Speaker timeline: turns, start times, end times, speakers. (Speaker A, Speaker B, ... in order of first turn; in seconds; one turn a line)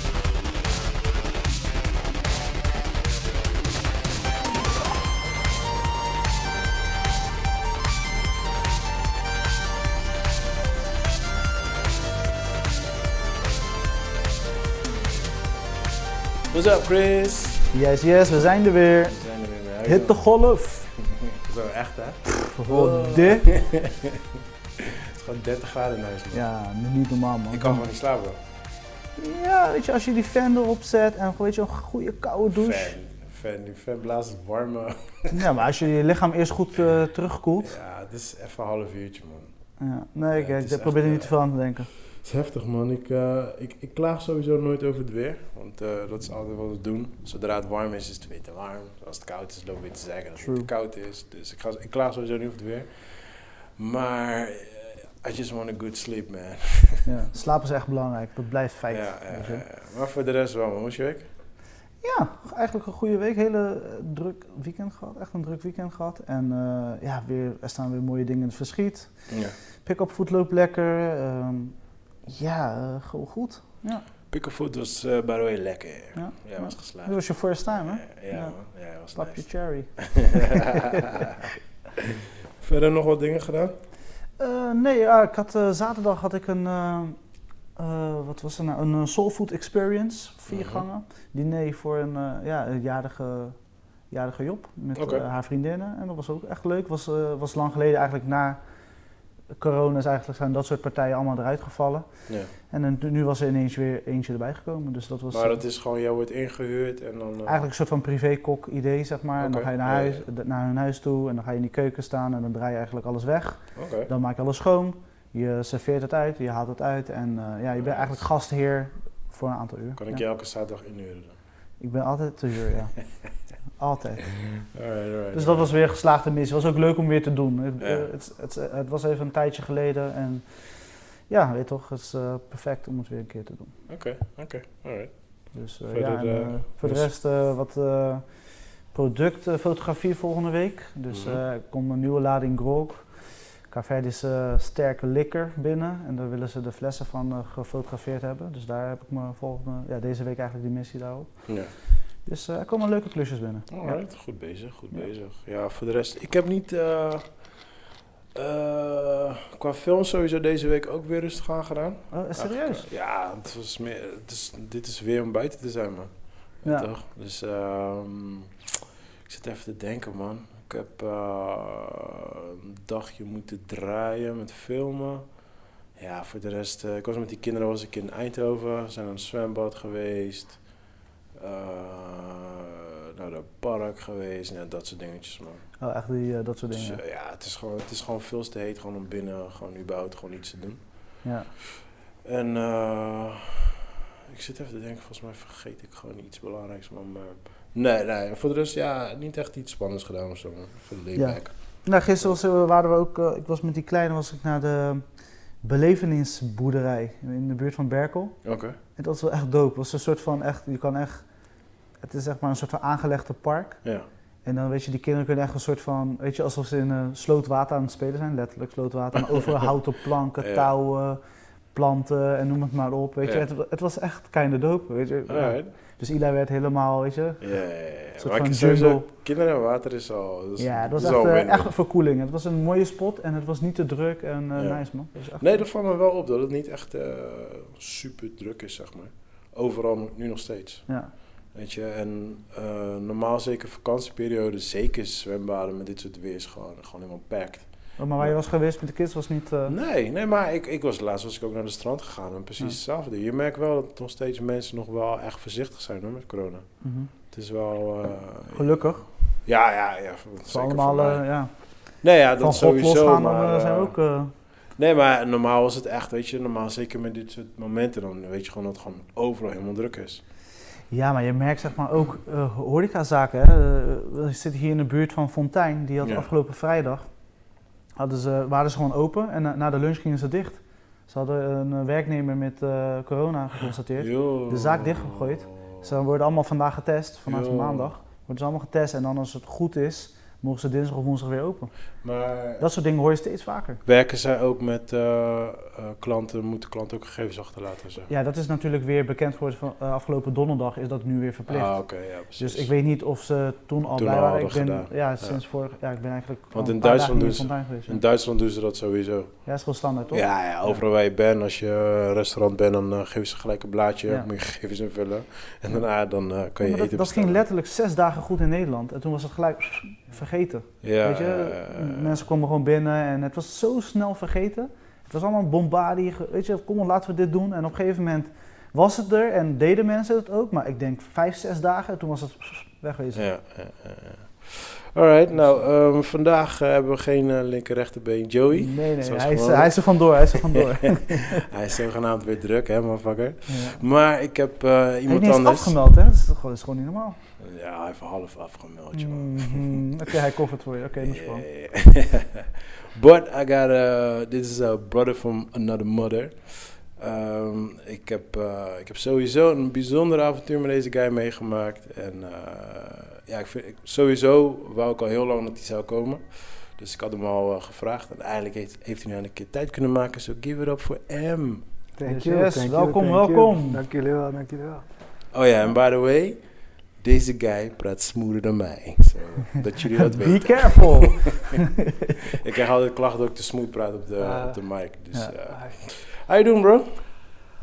Speaker A: 16.5-17.7
Speaker B: 17.7-19.2
Speaker A: 19.1-20.2
Speaker B: 19.9-20.9
Speaker A: 21.0-24.2
Speaker B: 22.4-23.6
Speaker A: 24.8-26.4
Speaker B: 26.3-27.8
Speaker A: 27.5-28.4
Speaker B: 29.2-32.9
Speaker A: 32.5-35.5
Speaker B: 35.3-37.7
Speaker A: 37.6-39.5
Speaker B: 39.8-41.9
Speaker A: 40.3-41.3
Speaker A: 42.1-57.1
Speaker B: 50.4-50.7
Speaker B: 57.0-59.6
Speaker A: 58.9-61.3
Speaker B: 62.0-69.3
Speaker A: 69.3-69.6
Speaker B: 69.8-74.0
Speaker A: 74.3-77.2
Speaker B: 76.2-80.8
Speaker A: 77.8-79.4
Speaker A: 80.0-81.5
Speaker A: 82.6-83.7
Speaker B: 84.4-87.2
Speaker B: 87.8-93.6
Speaker A: 90.5-90.8
Speaker B: 94.1-98.6
Speaker A: 94.9-95.2
Speaker B: 99.6-105.6
Speaker A: 105.3-107.6
Speaker B: 107.5-120.2
Speaker A: 109.4-110.2
Speaker A: 113.8-114.1
Speaker A: 117.8-118.2
Speaker A: 120.0-121.3
Speaker B: 121.8-123.0
Speaker B: 123.8-124.5
Speaker A: 124.6-125.7
Speaker B: 125.3-130.6
Speaker A: 127.8-128.1
Speaker B: 131.2-133.7
Speaker A: 133.9-135.1
Speaker B: 135.5-151.7
Speaker A: 135.9-137.1
Speaker A: 141.1-141.4
Speaker A: 151.5-151.7
Speaker B: 152.2-154.3
Speaker A: 153.7-157.5
Speaker A: 158.3-168.5
Speaker B: 162.1-162.8
Speaker A: 169.2-175.3
Speaker A: 176.0-180.6
Speaker A: 181.3-185.7
Speaker B: 185.8-187.0
Speaker A: 186.7-191.0
Speaker B: 191.2-191.5
Speaker A: 192.2-193.6
Speaker A: 194.3-202.4
Speaker B: 201.2-211.3
Speaker A: 208.4-208.8
Speaker B: 212.0-221.2
Speaker A: 220.4-220.7
Speaker B: 221.7-227.7
Speaker A: 225.3-225.7
Speaker A: 227.4-231.7
Speaker B: 228.2-229.1
Speaker B: 230.6-235.6
Speaker A: 234.6-240.9
Speaker A: 241.5-248.4
Speaker B: 248.0-249.7
Speaker A: 249.7-256.7
Speaker B: 256.8-257.1
Speaker A: 257.2-258.8
Speaker B: 258.5-259.1
Speaker A: 259.4-261.2
Speaker B: 260.5-264.3
Speaker A: 262.0-263.9
Speaker A: 264.8-270.2
Speaker B: 270.9-277.1
Speaker A: 276.0-276.3
Speaker B: 278.0-291.7
Speaker A: 284.0-285.9
Speaker A: 287.2-287.9
Speaker A: 292.0-292.7
Speaker B: 292.6-293.8
Speaker A: 293.8-298.1
Speaker B: 298.1-308.0
Speaker A: 301.5-302.7
Speaker A: 303.9-305.4
Speaker A: 306.5-309.3
Speaker B: 309.4-310.3
Speaker A: 310.1-317.4
Speaker B: 316.6-333.3
Speaker A: 320.8-322.2
Speaker A: 333.1-345.8
Speaker B: 338.5-341.5
Speaker B: 343.5-343.8
Speaker B: 345.1-347.2
Speaker A: 347.4-350.1
Speaker B: 348.9-351.4
Speaker A: 351.0-371.6
Speaker C: 371.9-374.9
Speaker B: 372.0-373.8
Speaker A: 375.3-376.4
Speaker A: 377.0-381.6
Speaker B: 380.2-382.1
Speaker A: 382.2-387.0
Speaker C: 384.2-384.6
Speaker C: 385.5-385.8